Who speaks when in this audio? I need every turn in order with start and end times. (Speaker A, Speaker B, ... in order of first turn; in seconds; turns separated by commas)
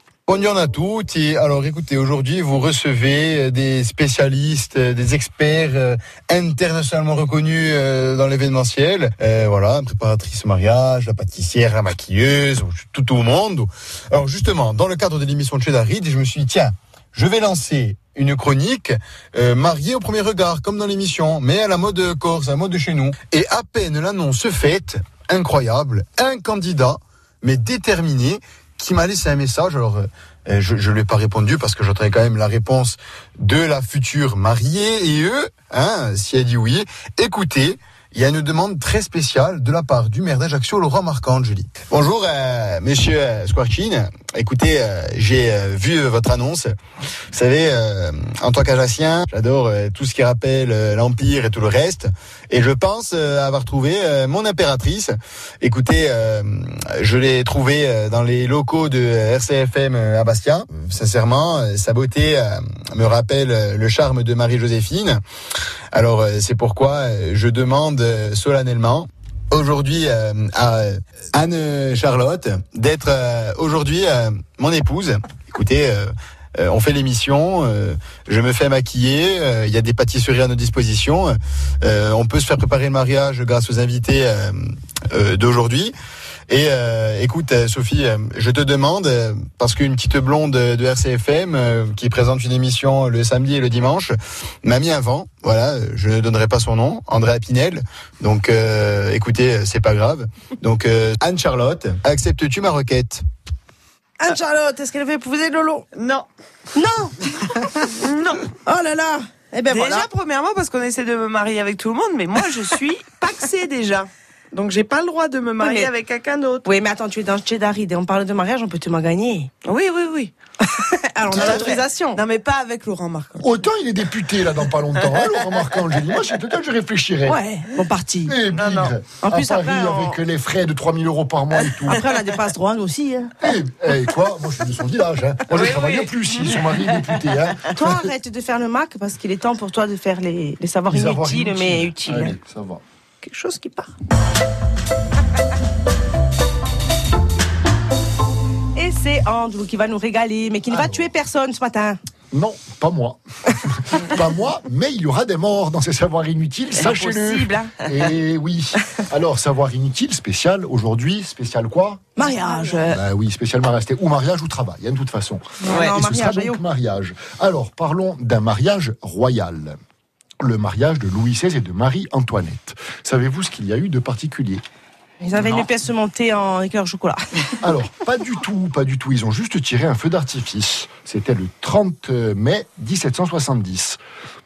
Speaker A: 0.3-46.8, Speaker A: 47.3-65.2, Speaker A: 65.9-85.9, Speaker A: 86.5-103.2, Speaker B: 104.2-105.9, Speaker C: 106.0-106.3, Speaker B: 106.7-107.9, Speaker C: 108.0-108.5, Speaker B: 108.7-110.1, Speaker C: 109.7-116.7, Speaker B: 115.6-115.9, Speaker B: 116.7-119.5, Speaker C: 119.7-120.3, Speaker B: 120.6-122.2, Speaker C: 121.3-123.6, Speaker D: 121.3-121.6, Speaker D: 123.4-127.4, Speaker C: 125.0-125.8, Speaker B: 127.2-128.4, Speaker D: 128.3-132.0, Speaker C: 128.5-128.9, Speaker B: 129.2-130.2, Speaker B: 131.9-133.3, Speaker D: 133.4-138.1, Speaker C: 135.5-137.1, Speaker B: 137.7-142.4, Speaker D: 140.9-142.8, Speaker B: 143.2-143.9, Speaker B: 148.8-152.0, Speaker D: 150.7-151.1, Speaker D: 152.3-162.0, Speaker B: 156.8-157.8, Speaker B: 162.2-163.0, Speaker D: 162.9-169.8, Speaker B: 165.6-166.6, Speaker D: 170.4-174.6, Speaker B: 175.2-177.6, Speaker D: 177.6-184.0